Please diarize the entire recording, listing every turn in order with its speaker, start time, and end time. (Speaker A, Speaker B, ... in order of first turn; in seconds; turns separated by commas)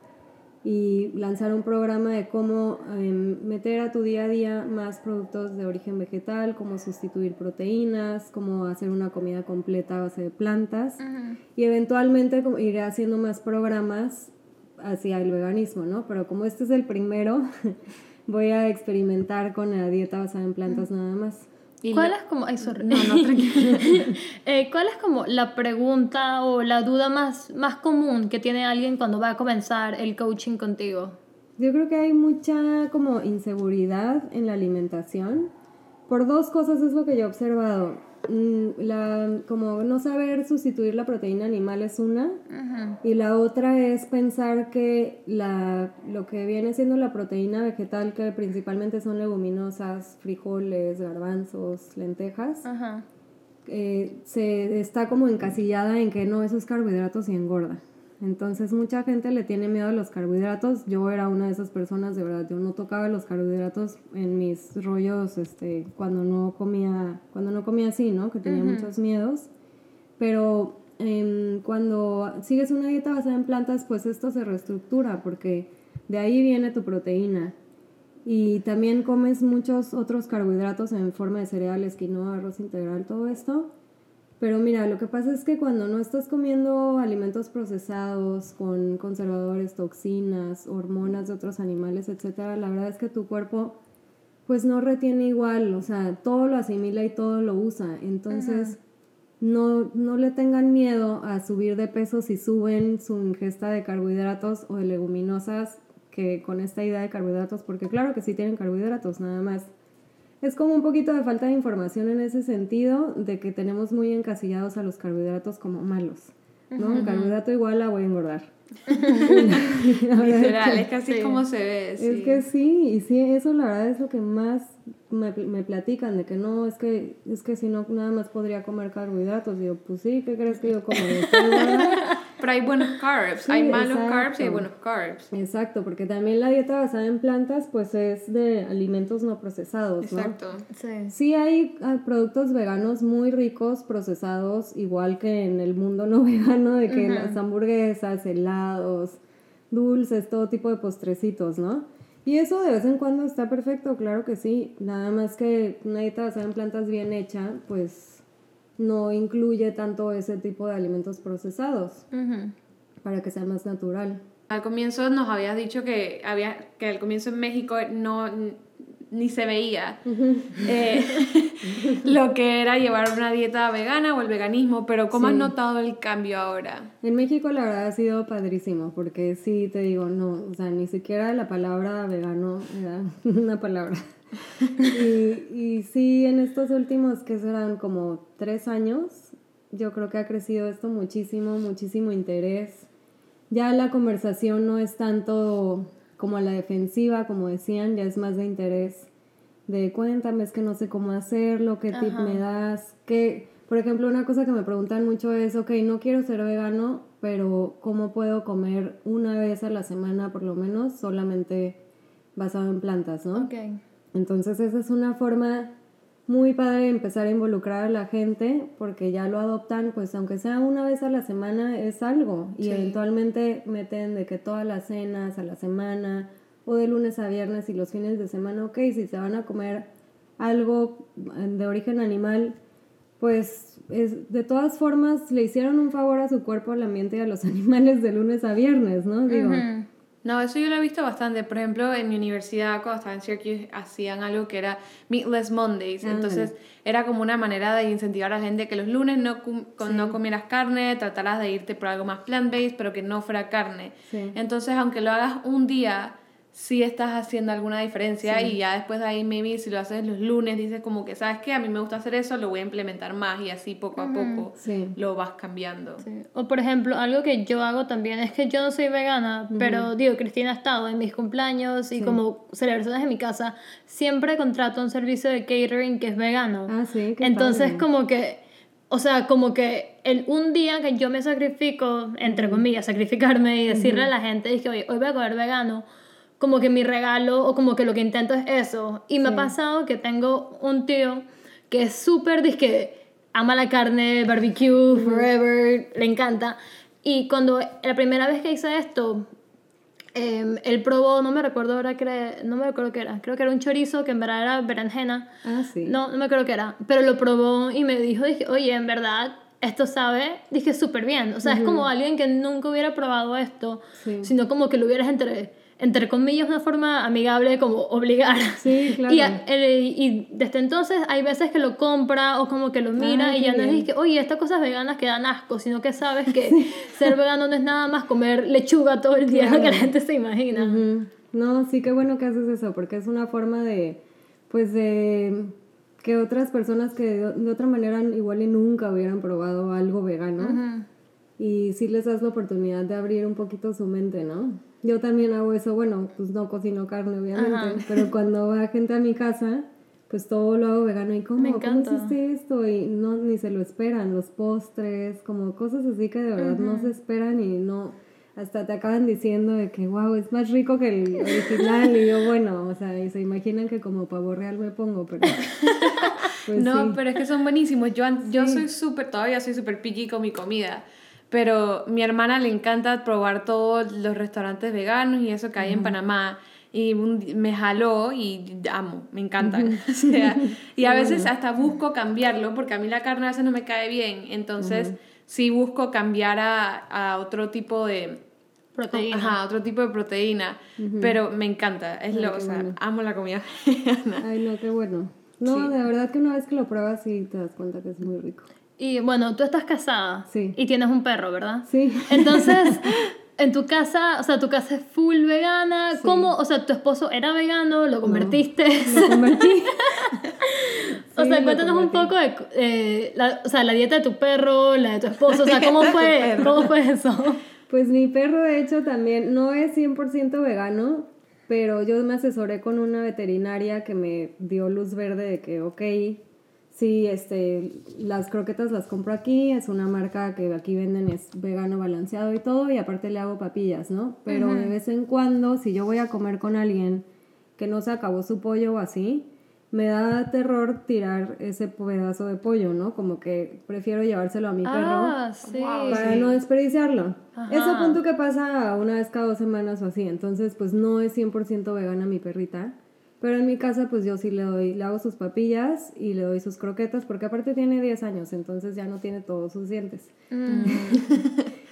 Speaker A: 0.6-11.0, Speaker B: 11.0-11.4, Speaker A: 11.5-17.8, Speaker A: 18.3-21.5, Speaker C: 21.8-24.1, Speaker B: 21.9-31.2, Speaker A: 31.6-35.5, Speaker A: 36.1-42.4, Speaker B: 42.5-43.0, Speaker A: 43.0-52.6, Speaker B: 52.6-53.0, Speaker A: 53.6-69.5, Speaker B: 68.5-68.9, Speaker A: 70.2-77.5, Speaker A: 78.2-83.7, Speaker A: 84.4-93.8, Speaker A: 94.5-98.8, Speaker B: 98.3-98.7, Speaker A: 99.4-109.7, Speaker A: 110.4-118.5, Speaker B: 116.7-117.3, Speaker C: 116.9-117.2, Speaker B: 118.9-119.6, Speaker C: 119.1-122.4, Speaker A: 119.1-120.9, Speaker B: 121.0-121.4, Speaker A: 122.0-132.1, Speaker B: 131.2-132.2, Speaker C: 132.4-135.3, Speaker A: 133.4-134.7, Speaker A: 135.3-140.4, Speaker C: 140.0-140.7, Speaker B: 140.7-141.1, Speaker A: 141.1-149.2, Speaker B: 146.9-147.4, Speaker A: 149.7-158.2, Speaker A: 158.8-162.0, Speaker B: 162.1-162.5, Speaker A: 163.0-164.2, Speaker C: 164.5-170.0, Speaker A: 170.1-170.8, Speaker C: 170.5-176.9, Speaker A: 171.6-172.1, Speaker A: 175.1-175.5, Speaker A: 177.0-184.1, Speaker A: 184.8-192.9, Speaker A: 193.5-199.1, Speaker A: 199.7-211.8, Speaker B: 201.9-202.4, Speaker A: 212.3-213.5, Speaker B: 213.3-213.8, Speaker A: 214.1-215.7, Speaker A: 216.3-232.6, Speaker C: 222.6-223.0, Speaker A: 233.2-239.6, Speaker B: 239.3-239.9, Speaker C: 240.2-266.0, Speaker A: 246.0-246.5, Speaker A: 249.8-250.2, Speaker A: 254.1-254.4, Speaker A: 258.2-258.6, Speaker B: 264.0-264.4, Speaker A: 264.6-264.9, Speaker B: 266.0-285.8, Speaker A: 269.5-269.9, Speaker A: 271.9-272.2, Speaker A: 276.7-277.9, Speaker A: 282.2-282.6, Speaker A: 283.7-284.1, Speaker B: 286.4-299.3, Speaker A: 289.2-289.5, Speaker A: 294.9-295.3, Speaker B: 300.1-305.3, Speaker A: 305.4-306.0, Speaker B: 305.8-330.8, Speaker A: 311.4-311.9, Speaker A: 314.0-314.3, Speaker A: 318.6-319.4, Speaker A: 323.0-323.9, Speaker A: 326.3-327.1, Speaker A: 329.3-329.9, Speaker A: 330.5-340.6, Speaker B: 340.4-340.9, Speaker A: 341.4-365.5, Speaker B: 347.3-348.1, Speaker B: 351.4-352.1, Speaker B: 356.4-356.9, Speaker B: 361.2-361.9, Speaker B: 365.7-366.1, Speaker C: 365.7-388.2, Speaker A: 366.4-367.0, Speaker A: 368.2-368.6, Speaker A: 375.6-375.9, Speaker A: 379.4-381.3, Speaker A: 384.6-384.9, Speaker B: 388.8-389.4, Speaker C: 388.9-394.2, Speaker A: 390.8-391.2, Speaker A: 392.1-392.8, Speaker A: 394.2-398.5, Speaker C: 395.5-395.7, Speaker B: 398.8-417.4, Speaker A: 400.3-400.6, Speaker A: 401.6-402.9, Speaker A: 405.9-406.3, Speaker A: 408.0-410.2, Speaker A: 410.9-412.1, Speaker C: 415.3-416.7, Speaker A: 417.7-437.1, Speaker B: 434.3-434.7, Speaker A: 437.6-445.2, Speaker B: 444.6-446.1, Speaker C: 445.4-446.4, Speaker A: 445.9-461.0, Speaker B: 447.4-448.0, Speaker B: 460.3-460.9, Speaker C: 460.5-461.4